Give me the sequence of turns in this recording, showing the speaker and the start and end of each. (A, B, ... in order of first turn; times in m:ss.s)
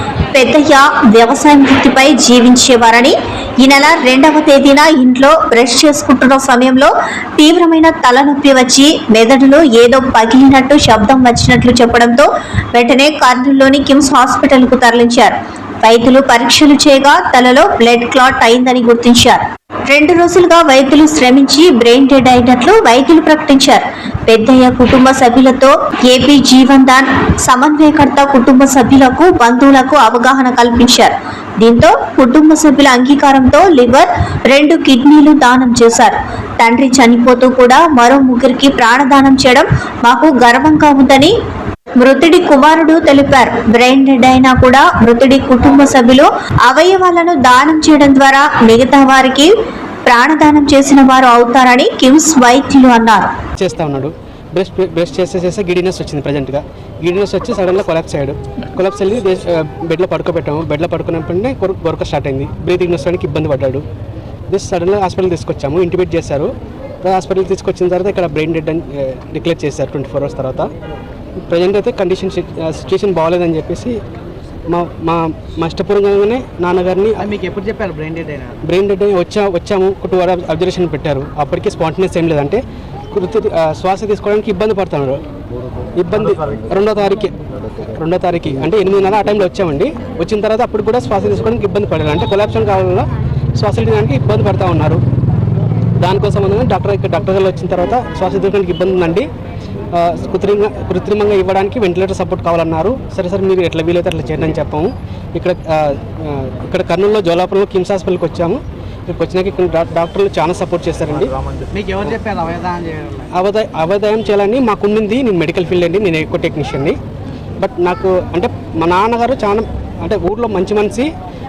0:00.3-0:41.3 A
0:42.0-0:49.5 A
0:50.0-0:53.3 A
0:53.6-1:03.8 B
1:04.5-1:06.5 B
1:07.0-1:10.7 B
1:11.4-1:14.0 B
1:14.7-1:17.3 B
1:17.2-1:18.6 C
1:18.6-1:22.6 B
1:23.1-1:25.2 B
1:26.0-1:27.3 B
1:27.9-1:35.0 B
1:36.0-1:39.2 B
1:39.9-1:51.3 B
1:51.7-1:53.3 C
1:53.3-1:57.0 B
1:57.6-2:01.1 B